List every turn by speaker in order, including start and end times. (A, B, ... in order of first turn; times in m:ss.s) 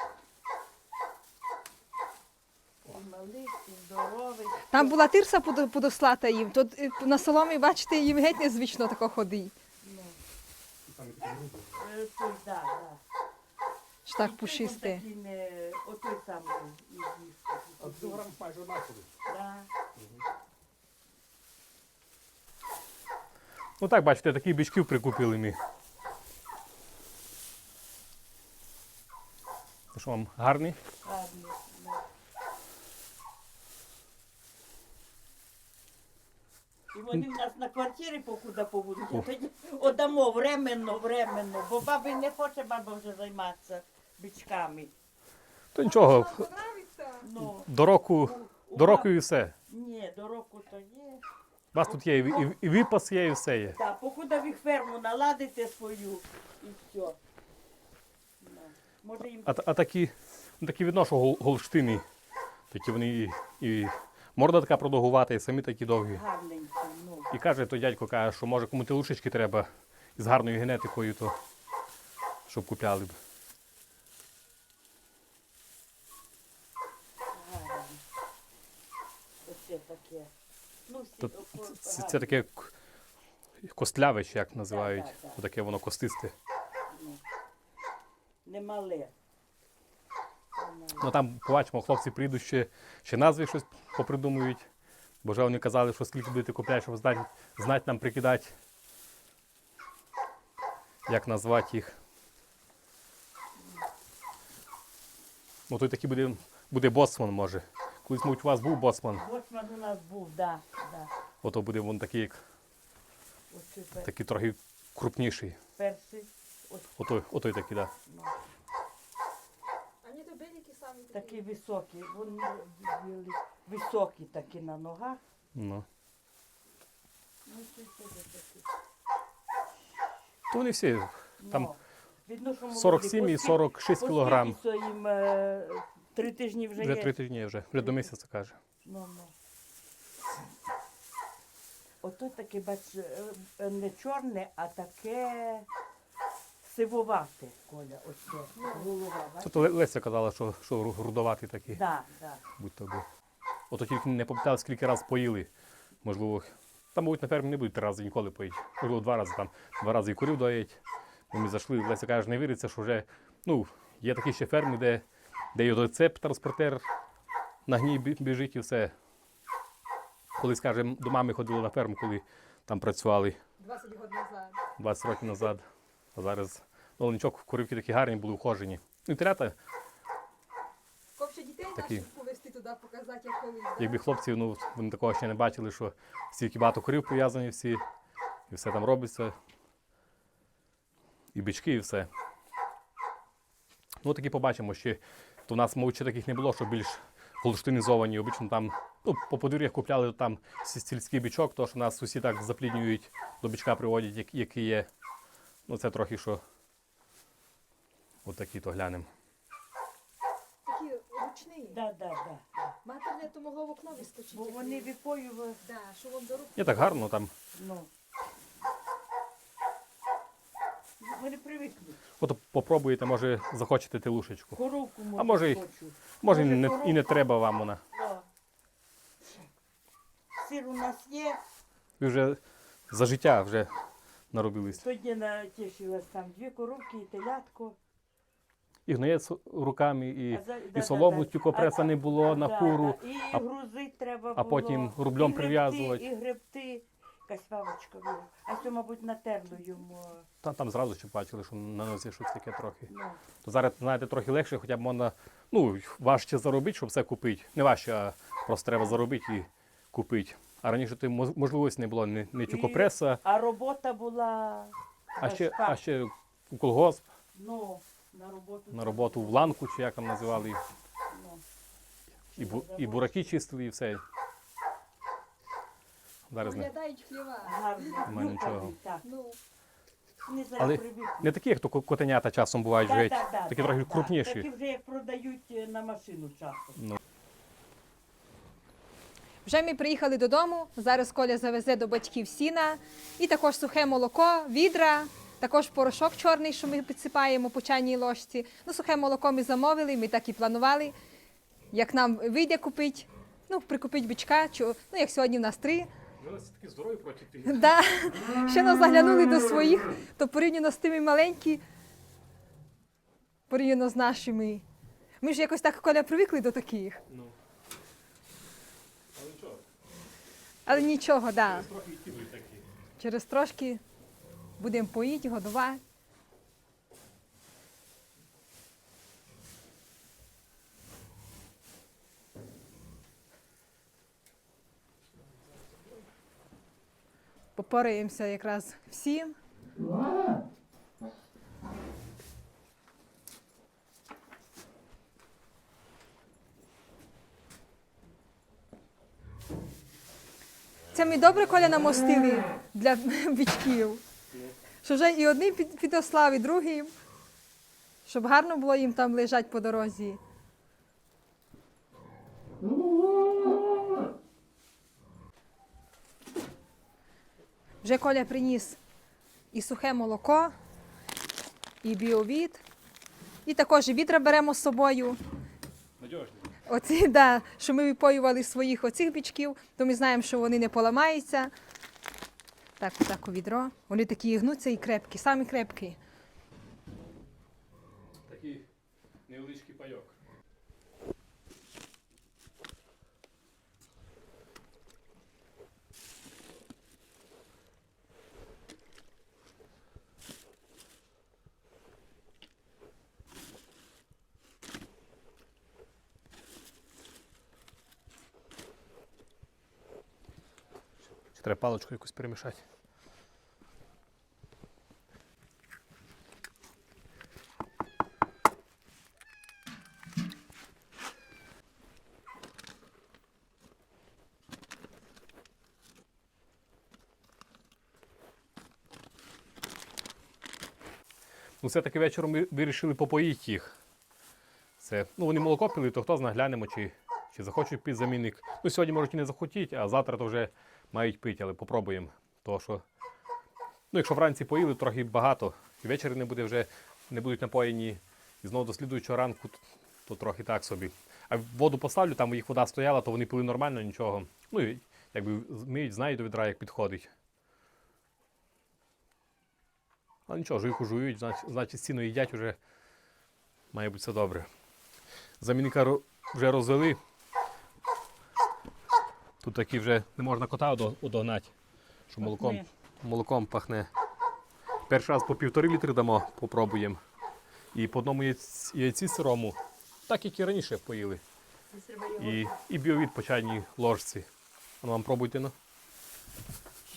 0:02.8-0:05.0 A
0:04.7-0:09.5 B
0:09.8-0:10.2 A
0:10.9-0:11.8 C
0:11.7-0:13.0 A
0:14.1-0:15.0 B
0:14.2-0:18.3 A
0:17.8-0:19.1 C
0:19.2-0:19.7 A
0:23.8-0:25.6 C
0:29.9-0:30.8 C
0:31.0-0:32.0 A
0:36.9-0:44.9 A
0:45.7-0:46.5 C
0:45.8-0:47.3 B
0:47.2-0:49.1 A
0:47.4-0:49.5 C
0:49.7-0:51.2 A
0:51.7-0:53.8 C
0:51.8-0:52.5 A
0:53.8-0:57.2 A
0:58.4-0:59.7 A
0:59.5-1:02.0 C
1:02.7-1:06.2 C
1:06.1-1:07.3 A
1:07.3-1:11.4 C
1:12.5-1:13.2 C
1:17.3-1:18.0 A
1:19.4-1:20.3 A
1:20.9-1:22.4 A
1:21.6-1:22.7 C
1:23.6-1:26.3 C
1:24.7-1:25.4 A
1:26.9-1:27.2 A
1:28.4-1:29.1 A
1:30.6-1:31.2 A
1:31.0-1:34.7 C
1:35.2-1:38.5 C
1:41.1-1:42.0 C
1:43.6-1:43.8 A
1:45.7-1:49.2 C
1:49.2-1:51.1 A
1:51.4-1:52.4 C
1:53.5-1:54.1 A
1:54.0-1:55.6 C
1:55.8-1:56.9 A
1:57.0-1:57.9 C
1:58.1-1:58.4 A
2:00.0-2:01.4 B
2:01.1-2:05.2 A
2:05.6-2:05.9 C
2:07.5-2:08.7 A
2:10.5-2:11.7 C
2:11.4-2:17.1 A
2:12.7-2:14.6 C
2:16.8-2:18.6 C
2:18.8-2:19.3 A
2:22.0-2:25.7 A
2:26.6-2:29.7 A
2:28.6-2:28.9 B
2:29.4-2:31.8 C
2:31.7-2:32.4 A
2:32.6-2:33.1 C
2:33.7-2:35.5 C
2:36.0-2:40.8 C
2:41.3-2:46.8 C
2:47.7-2:48.9 C
2:50.4-2:53.4 C
2:53.6-2:54.6 B
2:54.8-2:59.5 C
3:01.2-3:04.0 B
3:01.8-3:02.1 C
3:03.8-3:07.8 C
3:08.5-3:09.4 C
3:11.3-3:12.1 C
3:14.0-3:24.9 C
3:25.7-3:26.4 C
3:28.2-3:29.1 C
3:30.7-3:31.8 B
3:31.7-3:32.8 A
3:32.8-3:34.9 B
3:34.0-3:35.6 A
3:35.6-3:37.0 B
3:36.6-3:37.3 C
3:37.5-3:37.9 A
3:41.0-3:42.0 A
3:42.2-3:44.6 C
3:44.6-3:47.2 A
3:45.2-3:45.6 C
3:46.2-3:47.8 C
3:47.9-3:48.3 A
3:50.4-3:51.4 A
3:52.0-3:53.8 C
3:54.3-3:54.8 C
3:54.8-3:57.8 A
3:58.9-4:03.4 C
4:00.3-4:10.3 A
4:04.4-4:06.0 C
4:10.4-4:12.9 C
4:12.9-4:13.2 A
4:13.4-4:23.2 C
4:22.5-4:25.8 A
4:25.2-4:27.0 C
4:27.3-4:29.6 A
4:28.7-4:30.6 C
4:31.1-4:31.4 A
4:32.3-4:33.4 A
4:32.4-4:34.0 C
4:36.3-4:36.7 C
4:36.4-4:39.4 B
4:37.4-4:39.1 A
4:38.1-4:38.7 C
4:40.3-4:41.3 A
4:40.6-4:44.5 C
4:42.8-4:46.8 A
4:49.4-5:01.0 B
5:01.7-5:05.9 B
5:06.2-5:07.8 C
5:07.5-5:11.6 B
5:13.5-5:14.6 B
5:15.2-5:17.0 B
5:17.1-5:17.4 C
5:19.1-5:19.6 C
5:20.7-5:21.7 B
5:20.7-5:22.6 C
5:23.0-5:23.8 B
5:24.6-5:25.8 B
5:37.6-5:39.4 B
5:50.9-5:54.0 B
5:54.8-5:56.9 B
5:58.0-6:00.2 B
6:07.8-6:08.8 B
6:09.5-6:10.5 B
6:11.8-6:12.6 B
6:13.4-6:15.2 B
6:16.0-6:16.5 C
6:16.7-6:21.5 B
6:22.8-6:26.0 B
6:28.3-6:28.7 C
6:29.3-6:30.2 C
6:51.4-6:52.6 C
7:11.6-7:13.8 C
7:14.8-7:22.8 C
7:23.9-7:37.1 C
7:40.3-7:42.6 C
7:43.7-7:44.5 C
7:45.4-7:47.0 C
7:49.4-7:51.5 C
7:52.1-7:53.9 C
7:52.2-7:52.7 A
7:54.9-7:57.0 C
7:57.7-7:59.6 C
8:00.1-8:01.2 C
8:01.7-8:02.6 A
8:02.2-8:04.3 C
8:04.8-8:05.5 C